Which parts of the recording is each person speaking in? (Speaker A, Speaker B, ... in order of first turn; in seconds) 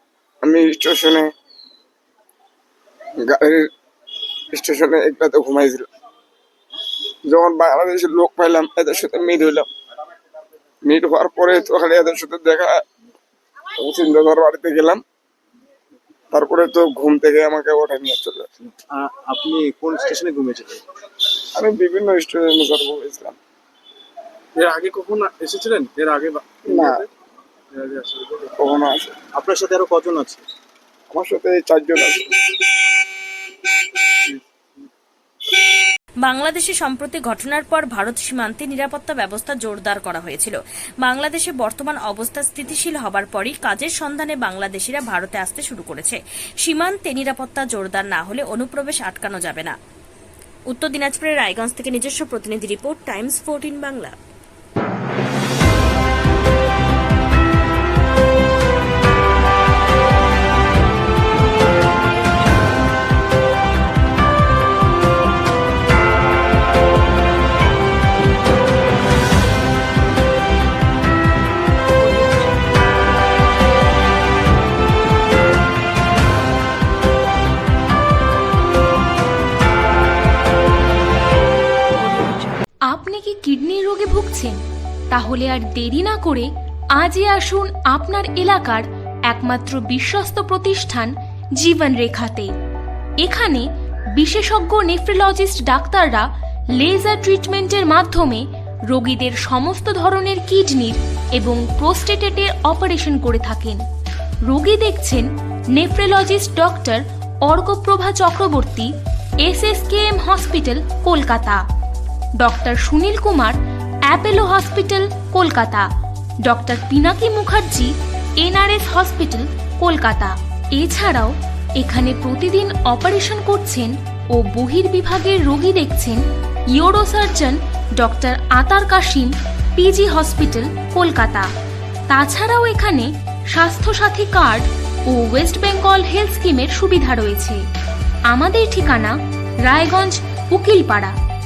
Speaker A: 0.4-1.3, 3.2-3.7, 4.5-5.9, 7.2-9.7, 10.8-12.8, 13.8-15.0, 16.3-18.5, 21.6-23.4, 26.7-27.1, 28.6-29.1, 31.1-32.6
Speaker B: 18.9-20.8, 29.4-30.4
Speaker C: 24.6-27.0, 27.7-28.4
Speaker D: 36.2-49.8, 50.7-54.2
Speaker E: 82.9-84.6, 85.1-92.5, 93.2-103.8, 104.4-108.9, 109.4-111.6, 112.4-115.9, 116.4-126.2, 126.7-131.5, 132.1-137.6, 138.3-141.1